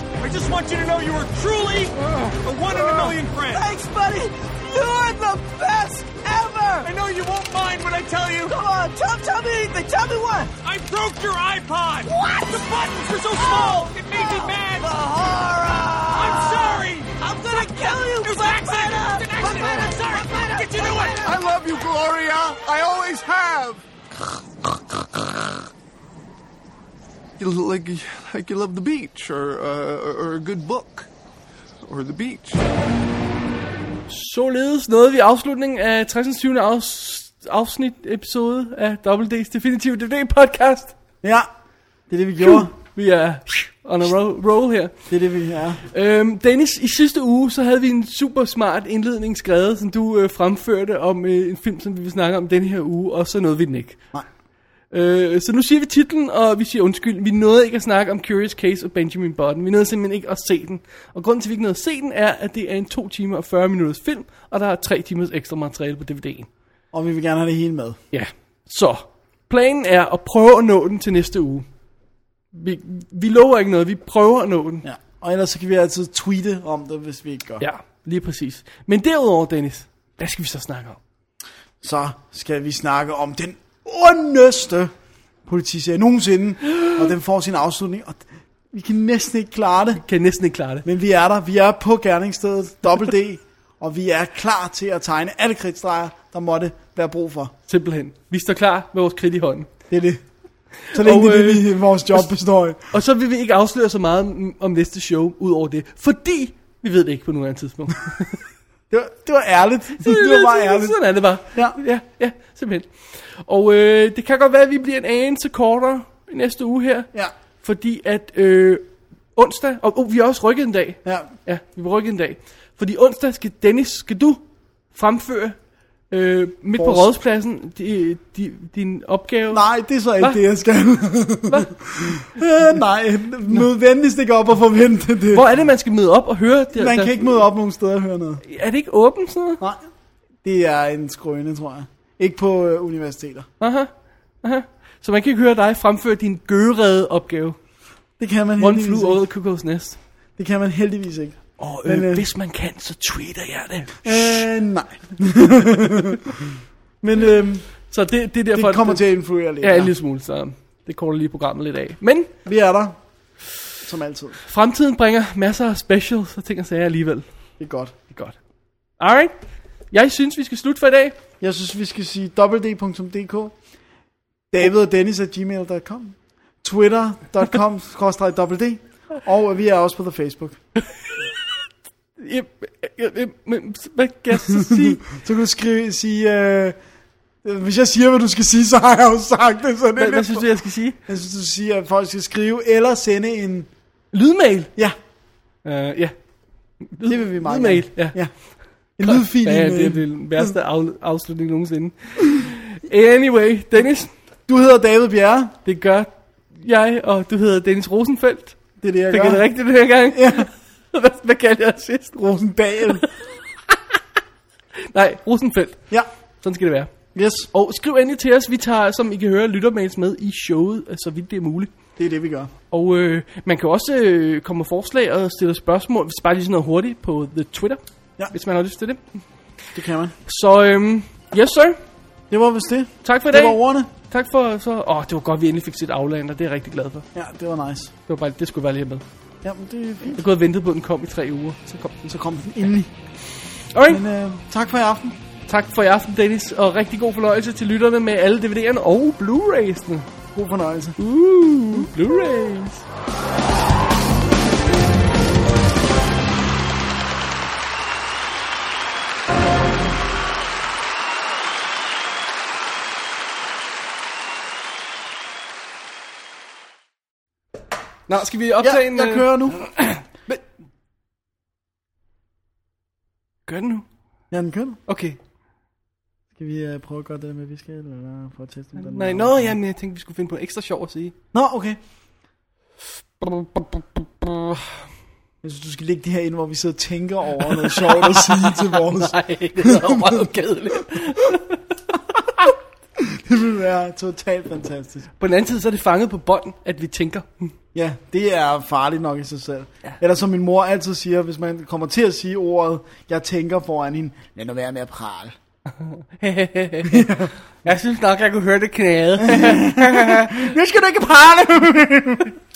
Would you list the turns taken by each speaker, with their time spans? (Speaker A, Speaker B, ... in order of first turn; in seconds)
Speaker A: 0.2-3.7, 6.8-8.7, 9.5-21.4
Speaker B: 3.5-6.8, 8.8-9.1, 41.2-41.5, 42.1-42.7, 45.1-45.8, 66.9-68.0, 74.8-77.6, 81.8-84.9, 85.5-90.0, 90.8-97.5, 99.9-100.2, 100.9-102.8, 108.9-111.0, 126.8-127.1, 129.5-135.4, 136.7-138.4, 140.4-143.5, 148.2-149.2, 150.4-152.2, 154.0-157.7, 158.5-159.9, 162.4-163.0, 163.8-164.4, 167.6-167.9, 171.4-173.5, 174.5-180.6, 184.5-186.8, 187.4-190.5, 191.1-193.7, 197.1-198.3, 198.9-200.5, 204.5-205.5, 208.8-209.4, 210.1-210.5, 212.2-213.0, 217.1-217.5, 222.0-222.5, 229.7-230.1, 232.3-233.9, 237.1-237.9, 239.4-240.2, 242.1-242.9, 243.9-245.2, 250.3-251.0, 268.6-269.6, 274.3-274.8, 276.4-279.5, 281.3-281.8, 285.4-290.3, 293.0-295.1, 297.7-305.3, 306.9-307.3, 309.2-312.3
Speaker C: 17.5-19.0, 34.1-40.9, 42.4-44.9, 45.9-54.0, 54.9-66.5, 68.1-71.7, 72.5-74.8, 77.6-81.0, 90.0-90.8, 97.7-99.7, 100.8-101.7, 102.9-108.4, 110.0-117.1, 117.6-118.8, 119.3-124.4, 124.9-125.6, 126.1-129.6, 135.3-137.2, 138.4-139.6, 143.6-143.9, 144.4-147.6, 148.6-150.0, 151.6-154.4, 157.8-159.0, 159.6-162.3, 164.4-167.2, 168.1-168.3, 169.0-169.3, 169.9-171.2, 182.2-185.0, 189.9-191.0, 194.1-194.7, 195.6-196.1, 196.8-198.2, 199.0-204.1, 205.6-212.2, 212.8-213.8, 214.8-215.8, 216.4-216.9, 217.5-221.7, 222.7-229.0, 230.3-231.8, 233.0-237.1, 238.1-239.0, 240.1-242.1, 243.7-244.0, 245.5-250.1, 251.0-252.8, 268.1-270.4, 273.5-273.9, 274.9-275.2, 278.8-281.1, 283.2-284.6, 287.6-291.8, 295.2-297.5, 305.8-310.5
Speaker D: 21.5-23.8, 27.4-31.0, 31.9-32.5